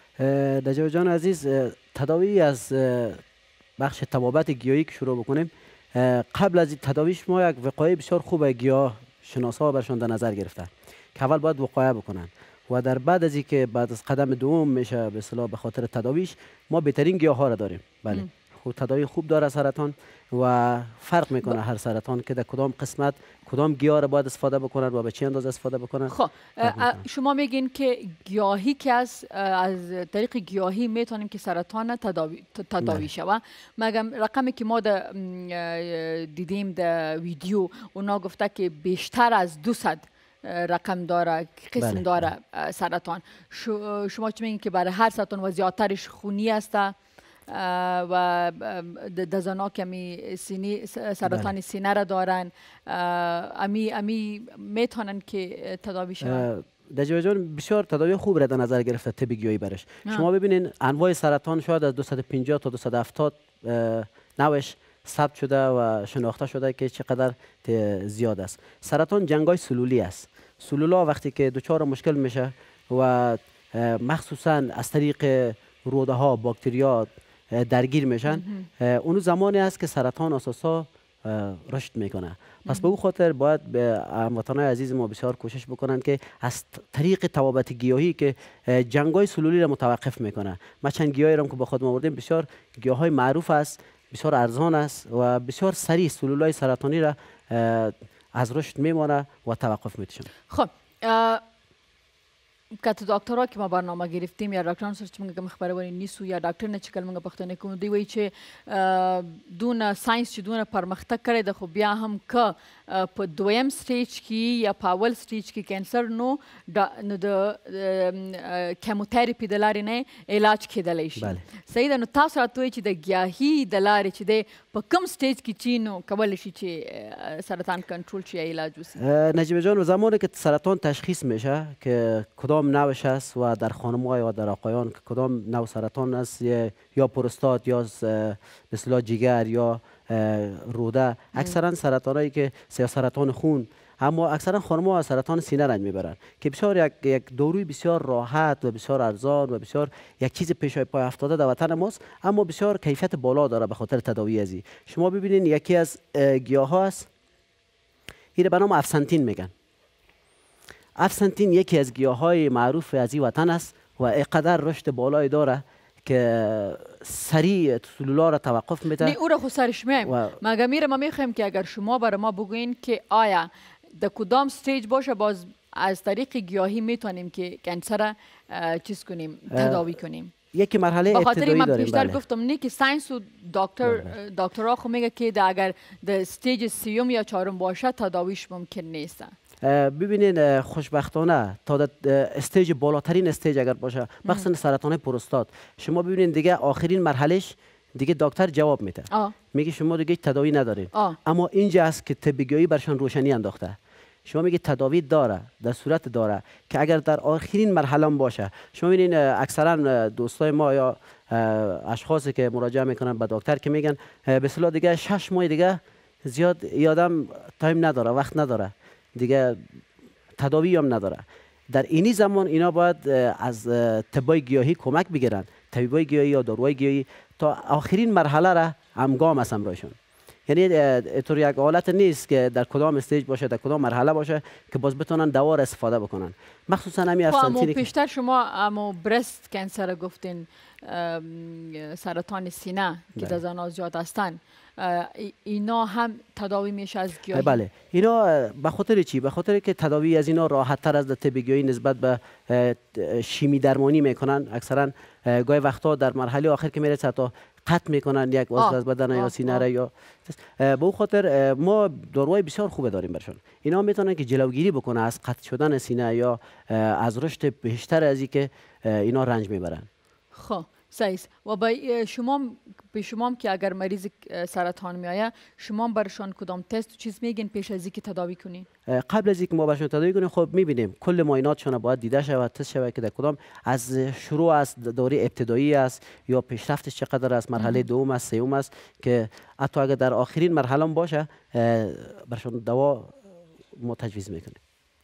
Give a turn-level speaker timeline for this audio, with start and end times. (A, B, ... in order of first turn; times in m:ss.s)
0:00.2-0:03.2 A
0:03.8-0:27.0 A
0:26.1-0:47.0 B
0:32.8-0:33.0 A
0:41.8-0:42.3 A
0:47.5-0:56.5 B
0:51.2-0:51.5 A
0:56.2-1:40.3 A
1:18.3-1:18.7 B
1:22.6-1:22.9 B
1:40.5-1:41.4 B
1:42.8-2:09.0 B
2:01.2-2:01.4 A
2:09.0-2:37.1 A
2:38.4-2:39.5 A
2:41.0-2:49.2 A
2:49.0-3:00.3 B
2:50.0-2:50.4 A
2:59.5-2:59.9 A
3:00.5-3:02.2 A
3:01.1-3:09.3 B
3:09.6-3:23.7 A
3:20.9-3:21.2 B
3:24.2-3:39.6 A
3:40.4-3:50.0 A
3:50.5-3:57.9 A
3:57.2-4:07.6 B
4:07.3-4:29.9 A
4:18.6-4:19.6 B
4:30.3-4:38.7 B
4:38.9-4:53.2 A
4:47.6-4:47.8 B
4:53.8-4:54.6 A